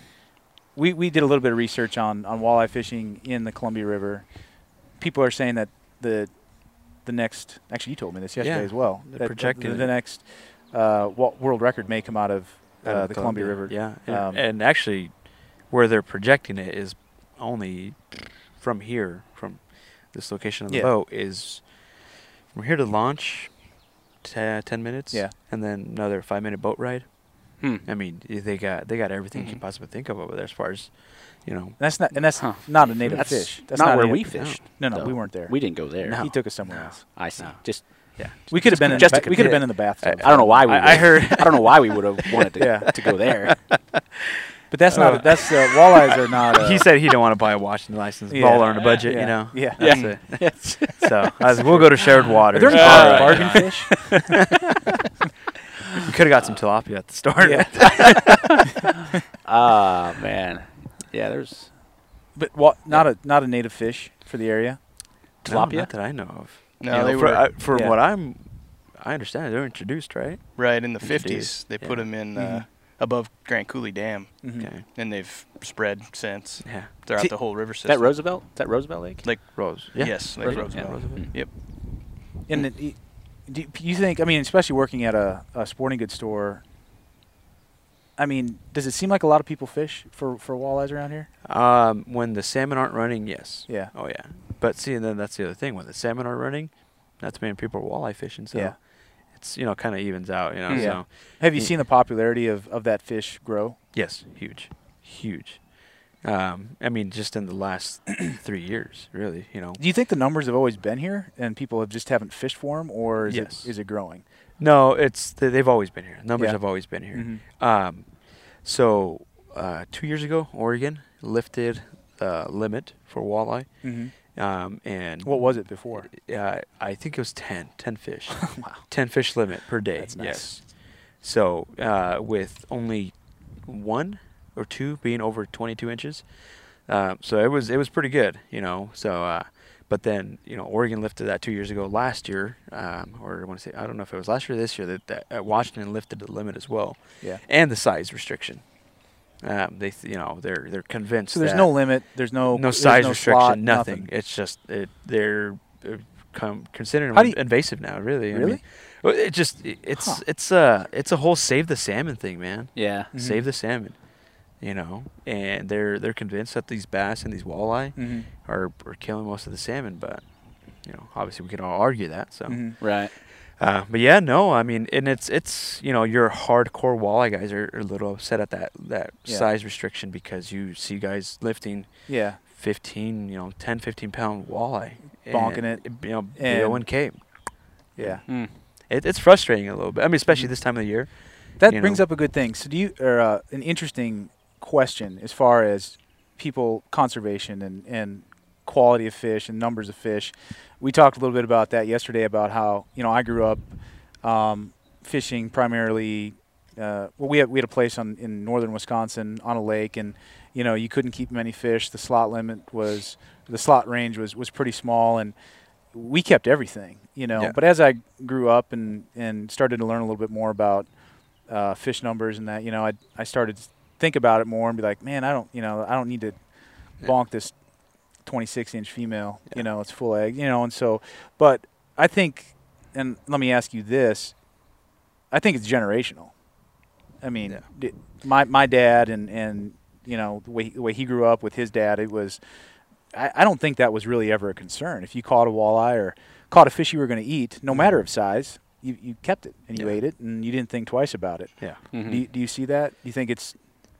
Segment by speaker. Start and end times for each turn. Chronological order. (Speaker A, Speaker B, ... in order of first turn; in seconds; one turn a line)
Speaker A: 0.8-14.4
Speaker B: 8.4-9.9
Speaker B: 12.8-31.8
Speaker C: 27.6-27.9
Speaker D: 29.3-29.6
Speaker A: 31.8-37.0
Speaker C: 32.4-43.7
Speaker B: 36.0-42.4
Speaker A: 38.5-40.6
Speaker A: 42.6-42.9
Speaker A: 44.7-46.9
Speaker B: 44.9-45.9
Speaker B: 46.5-53.7
Speaker A: 48.3-50.1
Speaker C: 49.8-51.4
Speaker A: 51.5-54.2
Speaker C: 52.3-54.4
Speaker B: 56.0-58.7
Speaker A: 57.4-58.5
Speaker C: 59.3-61.7
Speaker A: 62.4-65.0
Speaker C: 65.4-65.9
Speaker B: 65.5-72.1
Speaker D: 66.8-67.6
Speaker A: 67.7-68.0
Speaker D: 70.6-78.4
Speaker A: 72.4-72.7
Speaker A: 74.4-74.7
Speaker B: 74.6-74.8
Speaker B: 76.6-76.9
Speaker C: 77.8-79.5
Speaker D: 79.2-81.5
Speaker B: 79.5-81.4
Speaker C: 80.4-81.5
Speaker A: 82.5-86.6
Speaker A: 88.2-91.3
Speaker B: 91.4-101.7
Speaker A: 93.7-93.9
Speaker A: 98.5-98.8
Speaker C: 100.7-101.0
Speaker A: 100.7-103.8
Speaker B: 103.9-109.8
Speaker A: 109.8-114.2
Speaker B: 113.2-113.7
Speaker B: 114.6-136.3
Speaker A: 116.4-117.4
Speaker A: 123.8-124.2
Speaker A: 125.2-126.1
Speaker A: 128.4-128.8
Speaker A: 130.0-130.6
Speaker B: 136.8-148.7
Speaker B: 149.4-152.0
Speaker A: 151.3-154.1
Speaker B: 152.5-164.0
Speaker A: 157.1-157.4
Speaker A: 158.3-158.6
Speaker A: 160.0-160.2
Speaker C: 162.8-163.1
Speaker A: 163.1-163.4
Speaker B: 164.5-187.2
Speaker A: 168.0-168.3
Speaker A: 172.5-172.8
Speaker C: 172.8-173.2
Speaker A: 182.1-182.4
Speaker A: 185.3-187.0
Speaker B: 187.9-192.0
Speaker A: 188.0-188.3
Speaker C: 188.3-188.5
Speaker A: 190.3-191.0
Speaker A: 191.6-215.3
Speaker A: 215.9-220.9
Speaker A: 221.5-226.4
Speaker A: 227.0-227.6
Speaker A: 228.2-234.4
Speaker A: 235.3-236.3
Speaker A: 237.2-242.4
Speaker A: 243.1-253.6
Speaker B: 247.7-248.0
Speaker C: 251.9-252.2